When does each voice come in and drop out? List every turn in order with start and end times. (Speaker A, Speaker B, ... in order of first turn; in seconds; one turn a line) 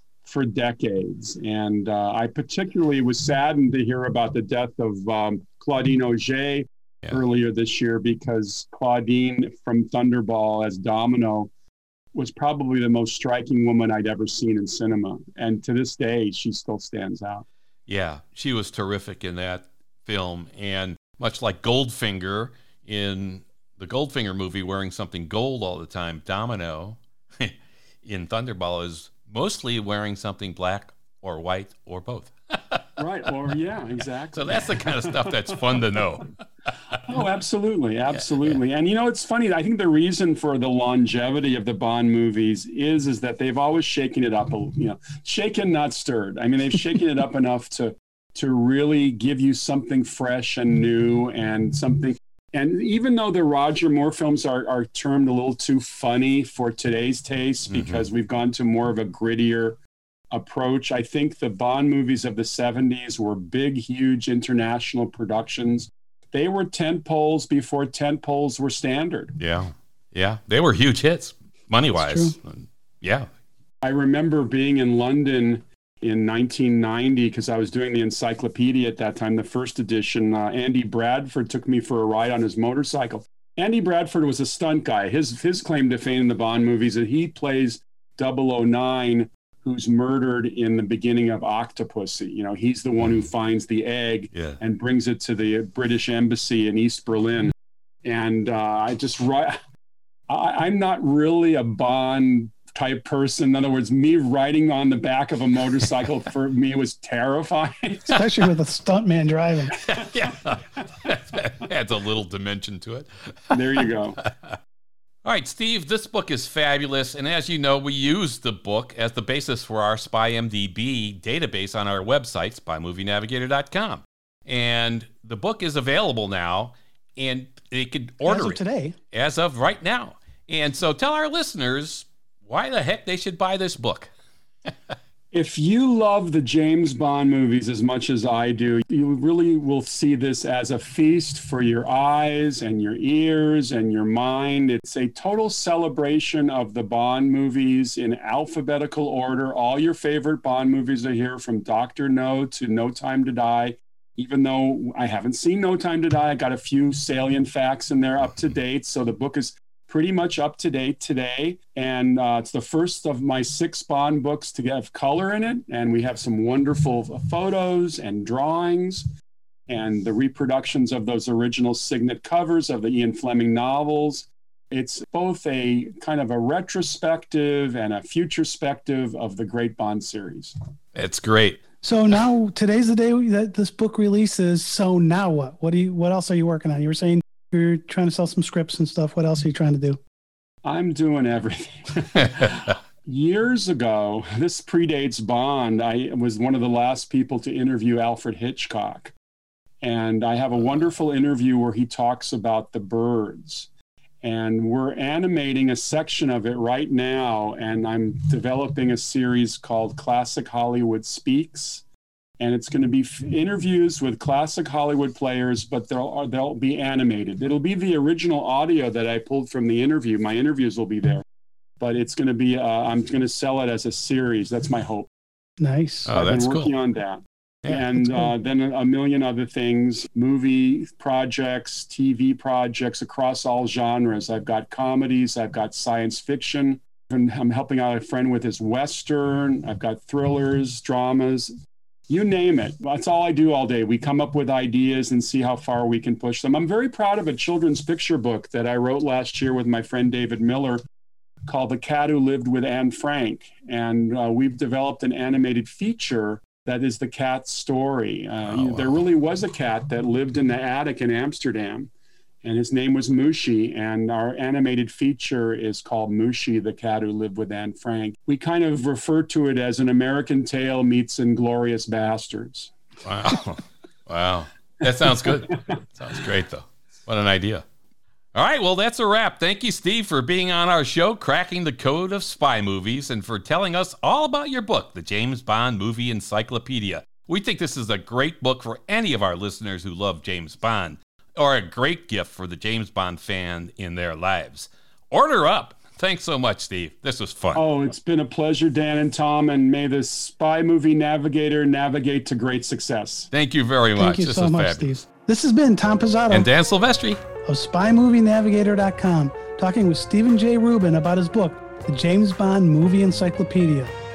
Speaker A: 0.2-11.5
Speaker A: 12.1-17.5
Speaker B: 17.9-32.9
Speaker A: 33.0-35.9
Speaker B: 34.3-37.0
Speaker A: 36.9-59.8
Speaker B: 38.1-38.6
Speaker B: 57.7-58.0
Speaker A: 60.3-69.4
Speaker B: 69.4-73.3
Speaker C: 72.0-72.4
Speaker A: 73.8-99.6
Speaker A: 100.3-108.2
Speaker C: 108.1-109.8
Speaker B: 109.8-113.5
Speaker A: 113.5-114.2
Speaker B: 114.3-114.6
Speaker B: 115.2-128.6
Speaker C: 128.2-129.0
Speaker B: 129.1-134.1
Speaker B: 134.7-134.9
Speaker A: 135.3-169.1
Speaker A: 169.7-180.6
Speaker B: 180.9-181.6
Speaker C: 181.8-190.0
Speaker A: 190.6-199.1
Speaker A: 199.8-203.7
Speaker A: 204.2-211.8
Speaker A: 212.4-221.2
Speaker A: 221.8-225.1
Speaker C: 225.6-226.2
Speaker B: 226.1-226.7
Speaker A: 226.2-241.5
Speaker C: 228.0-228.3
Speaker A: 242.1-250.8
Speaker A: 251.4-261.9
Speaker A: 262.4-272.7
Speaker B: 273.1-277.6
Speaker B: 278.4-297.6
Speaker A: 297.6-303.3
Speaker B: 303.3-305.0
Speaker C: 304.0-306.5
Speaker B: 306.3-307.2
Speaker C: 307.5-313.9